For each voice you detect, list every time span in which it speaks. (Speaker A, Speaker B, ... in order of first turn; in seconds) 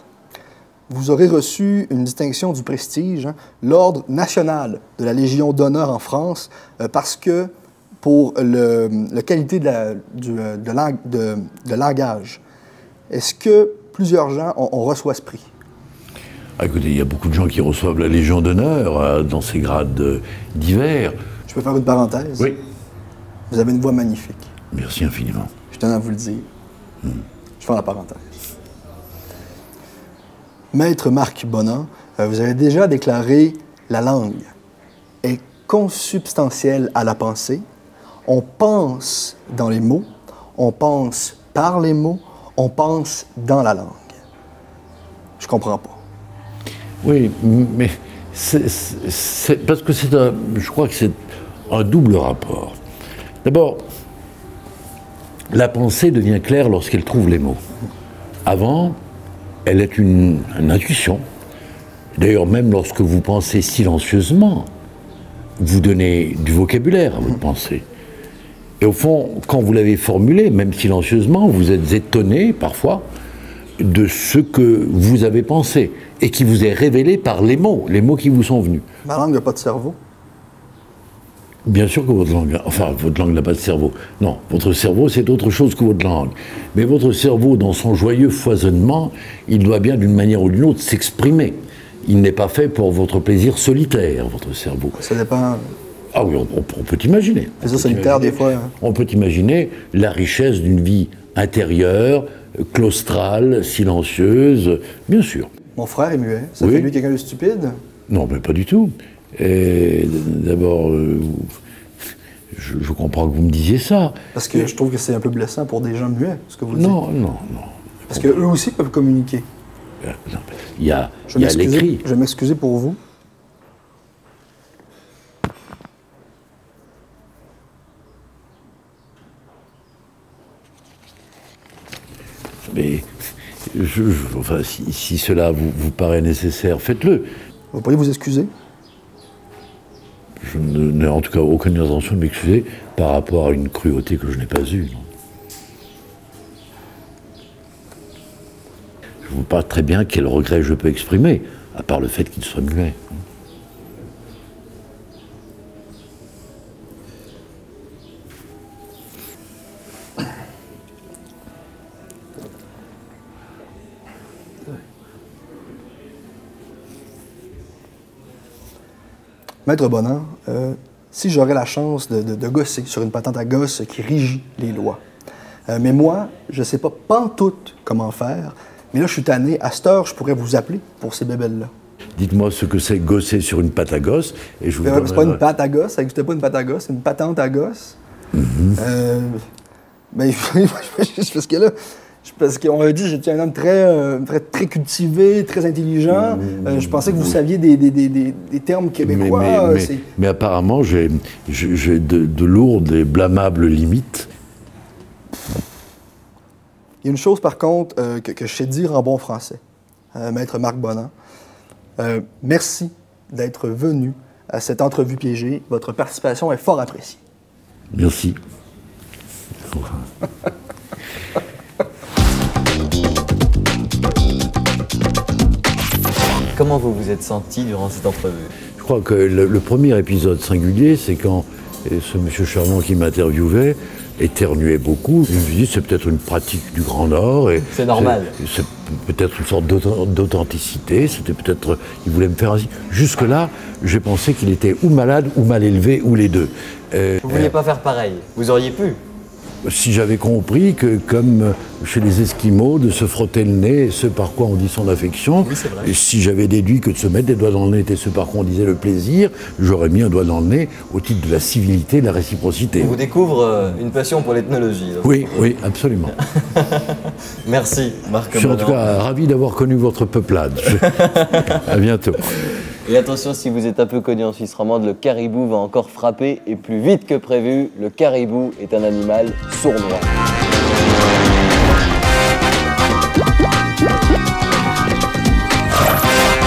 Speaker A: 0.9-12.4, 13.1-15.5, 21.5-22.5, 23.5-24.5, 25.7-26.4, 27.6-28.3, 30.7-34.5, 35.2-37.6, 38.2-44.2, 45.4-46.0, 79.0-80.0, 95.0-95.8, 97.6-98.7, 105.8-107.8, 114.3-117.0, 118.1-119.5, 121.3-123.0, 137.7-138.5, 169.6-175.0, 175.7-181.7, 184.8-188.0, 188.8-189.4, 190.1-200.1, 207.0-209.6, 210.1-211.1, 212.0-217.2
Speaker B: 16.6-21.2, 24.7-25.5, 47.0-52.8, 53.4-53.9, 55.5-57.6, 58.4-59.0, 59.6-61.2, 62.1-64.7, 65.6-67.8, 68.8-73.1, 73.8-78.8, 81.6-95.0, 96.1-105.5, 106.6-106.9, 108.1-114.2, 116.7-118.5, 120.0-122.0, 132.7-133.1, 133.7-137.3, 140.4-145.1, 149.2-153.2, 182.2-185.4, 188.3-188.8, 196.1-197.4, 199.0-204.3, 217.9-218.4, 219.7-220.1, 228.8-247.5, 249.6-263.0, 265.0-266.2, 268.3-270.8, 271.6-272.4
Speaker C: 226.5-228.5, 237.7-238.3, 247.2-249.0, 255.4-255.9, 262.8-265.2, 266.4-268.9, 270.6-271.6, 272.8-280.1